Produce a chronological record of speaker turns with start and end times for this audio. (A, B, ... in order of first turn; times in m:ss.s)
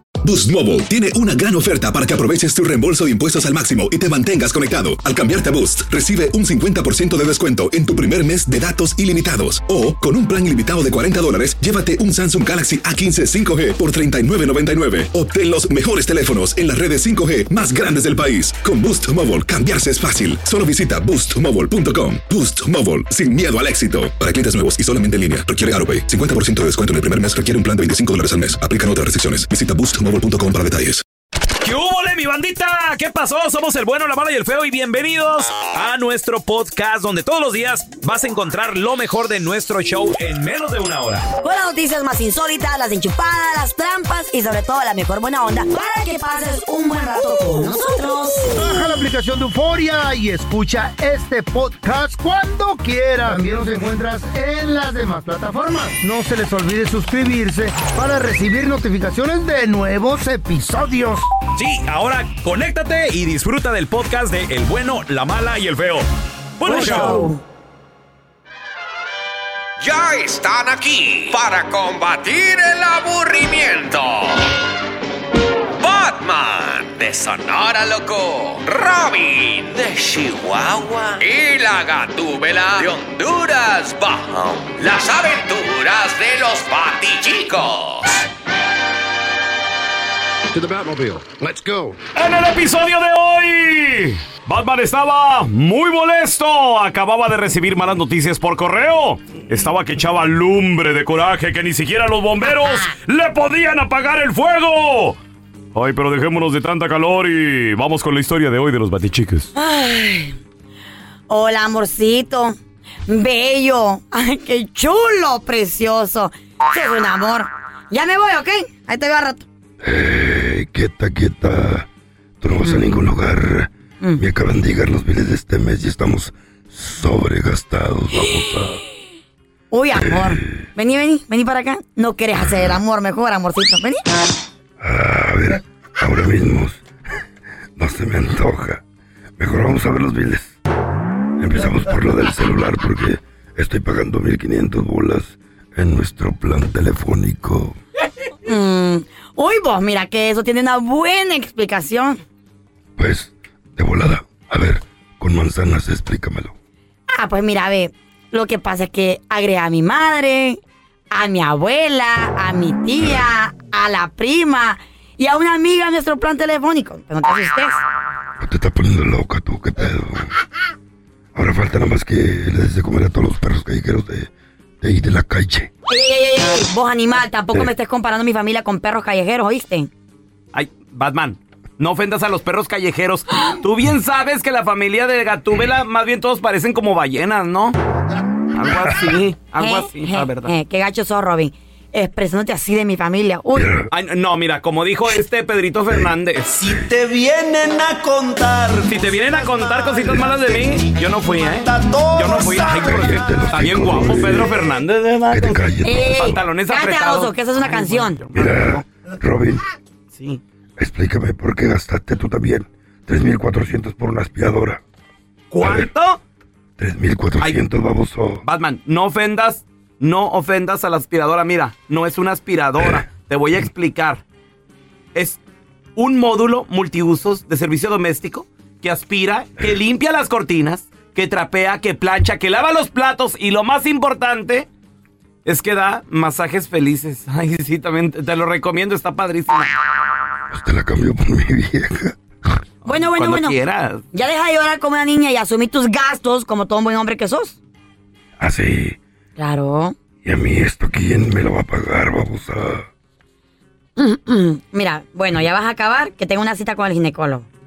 0:00.2-0:31.0 A
0:31.6-0:41.2 B
0:41.4-0:48.6 C
0:48.5-1:01.2 D
1:01.6-1:06.1 B
1:06.6-1:07.3 B
1:06.6-1:07.4 C
1:09.8-1:14.4 E
1:15.8-1:28.2 E
1:32.1-1:45.2 B
1:45.7-1:49.5 B
1:49.6-1:50.3 C
1:51.3-1:52.5 C
1:53.1-1:59.4 C
1:59.8-2:01.9 F
2:02.4-2:08.8 F
2:09.7-2:14.0 C
2:09.9-2:10.7 F
2:14.8-2:16.8 F
2:17.8-2:18.8 F
2:19.4-2:20.5 F
2:21.4-2:27.8 F
2:28.5-2:32.2 C
2:33.0-2:36.5 F
2:37.1-2:40.6 C
2:41.1-2:47.8 C
2:48.4-2:50.3 F
2:51.3-2:54.3 F
2:54.8-2:55.7 F
2:55.9-2:59.9 C
3:00.5-3:07.8 B
3:08.5-3:10.5 B
3:08.7-3:09.0 F
3:09.6-3:13.7 C
3:13.5-3:13.9 F
3:13.9-3:16.8 B
3:15.9-3:16.9 F
3:18.8-3:28.5 B
3:22.2-3:22.6 D
3:22.6-3:24.6 F
3:25.3-3:26.4 F
3:25.9-3:28.1 C
3:28.3-3:29.6 F
3:30.8-3:34.8 F
3:35.5-3:36.2 B
3:35.6-3:35.9 F
3:36.8-3:38.4 F
3:38.4-3:44.2 B
3:45.1-3:45.4 B
3:46.0-3:54.7 B
3:55.4-3:59.7 B
4:00.5-4:02.2 F
4:02.8-4:04.0 B
4:02.9-4:03.5 C
4:04.1-4:07.5 C
4:08.4-4:09.0 F
4:09.4-4:09.9 C
4:10.2-4:12.9 F
4:14.0-4:17.4 C